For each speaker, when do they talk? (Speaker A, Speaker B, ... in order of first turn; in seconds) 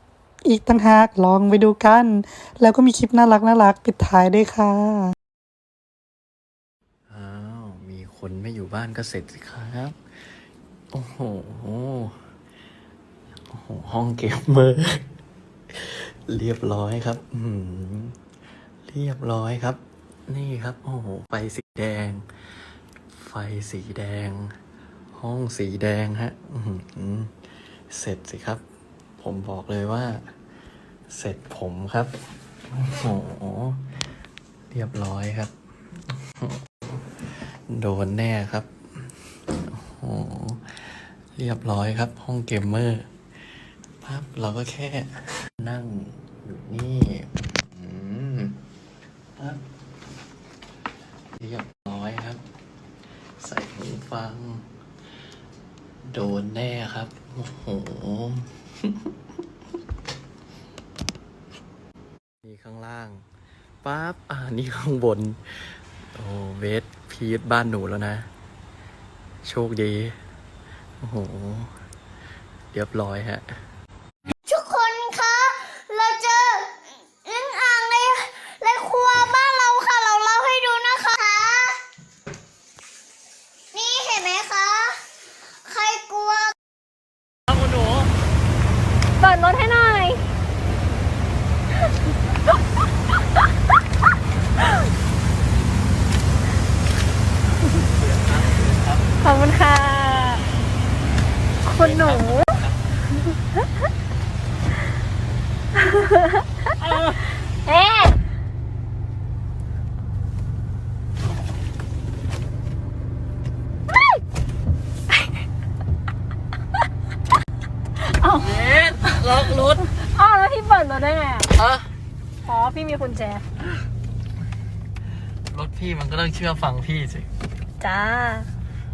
Speaker A: 0.4-5.1
Speaker B: 7.1-10.0, 10.9-12.3, 13.5-15.1, 15.7-18.2, 18.9-22.2, 23.1-24.6, 25.1-27.3, 27.9-28.6, 29.2-30.3, 31.1-32.1, 32.7-33.8, 34.7-35.5, 36.1-43.1, 44.0-48.6, 49.4-49.6, 51.4-52.4, 53.4-54.7, 56.1-59.0, 62.4-63.2, 63.8-68.3, 69.4-70.2, 71.0-71.7, 72.7-73.6, 98.1-99.0, 101.8-102.7, 118.4-119.8, 121.5-121.9, 125.5-127.3
Speaker C: 74.5-81.8, 83.7-85.0, 85.7-86.5
Speaker D: 89.2-90.2, 99.2-100.5, 101.6-102.6, 105.8-108.2, 118.0-118.8, 119.8-121.5, 122.4-123.4, 127.8-128.5